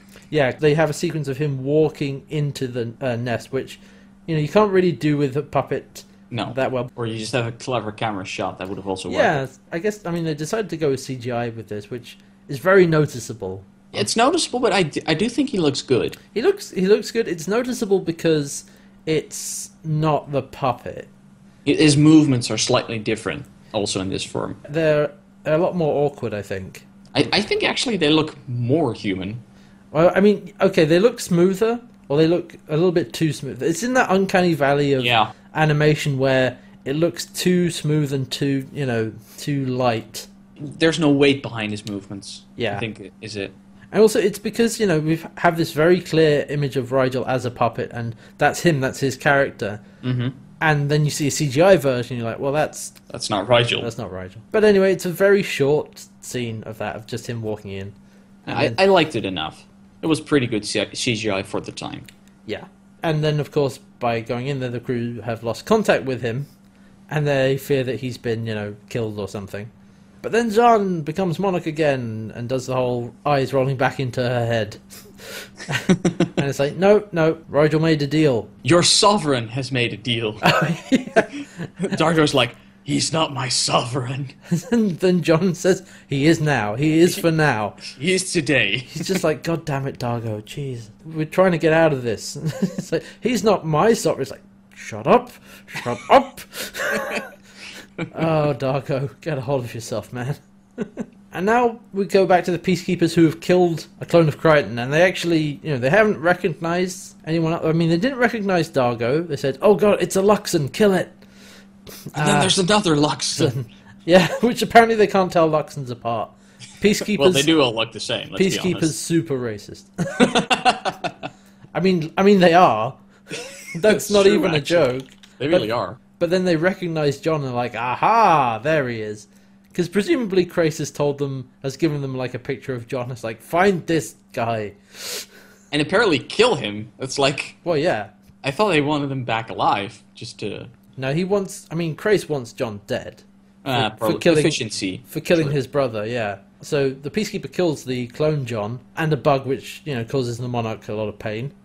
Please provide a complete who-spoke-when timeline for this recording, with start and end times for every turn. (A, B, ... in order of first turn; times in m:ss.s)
0:00.3-0:06.9 A
0:06.3-0:09.4 B
0:09.1-0:14.0 A
0:13.9-0:16.2 B
0:16.3-0:21.1 A
0:21.6-0:24.6 B
0:24.6-0:26.8 A
0:27.1-0:29.4 B
0:29.9-0:40.3 A
0:35.0-0:35.3 B
0:40.6-0:43.5 B
0:42.6-0:42.8 A
0:43.9-0:49.8 A
0:50.0-0:50.4 B
0:50.6-0:53.0 A
0:53.1-0:53.9 B
0:53.8-0:57.9 A
0:58.4-0:58.8 A
0:58.4-1:02.1 B
1:02.5-1:06.5 A
1:07.1-1:09.7 A
1:10.2-1:18.5 A
1:18.6-1:20.6 B
1:20.4-1:21.7 A
1:21.8-1:24.3 B
1:24.5-1:27.8 A
1:27.8-1:29.2 B
1:28.9-1:37.2 A
1:36.9-1:37.2 B
1:38.1-1:51.2 A
1:52.1-1:52.6 A
1:52.1-1:53.5 B
1:53.3-1:57.5 A
1:57.0-1:58.9 B
1:58.4-2:00.5 A
2:00.2-2:01.2 B
2:01.7-2:03.0 A
2:03.7-2:05.7 A
2:03.8-2:06.0 B
2:06.2-2:15.2 A
2:15.7-2:17.6 B
2:17.6-2:18.1 A
2:18.4-2:20.7 B
2:21.0-2:23.2 A
2:23.6-2:25.5 B
2:23.7-2:31.5 A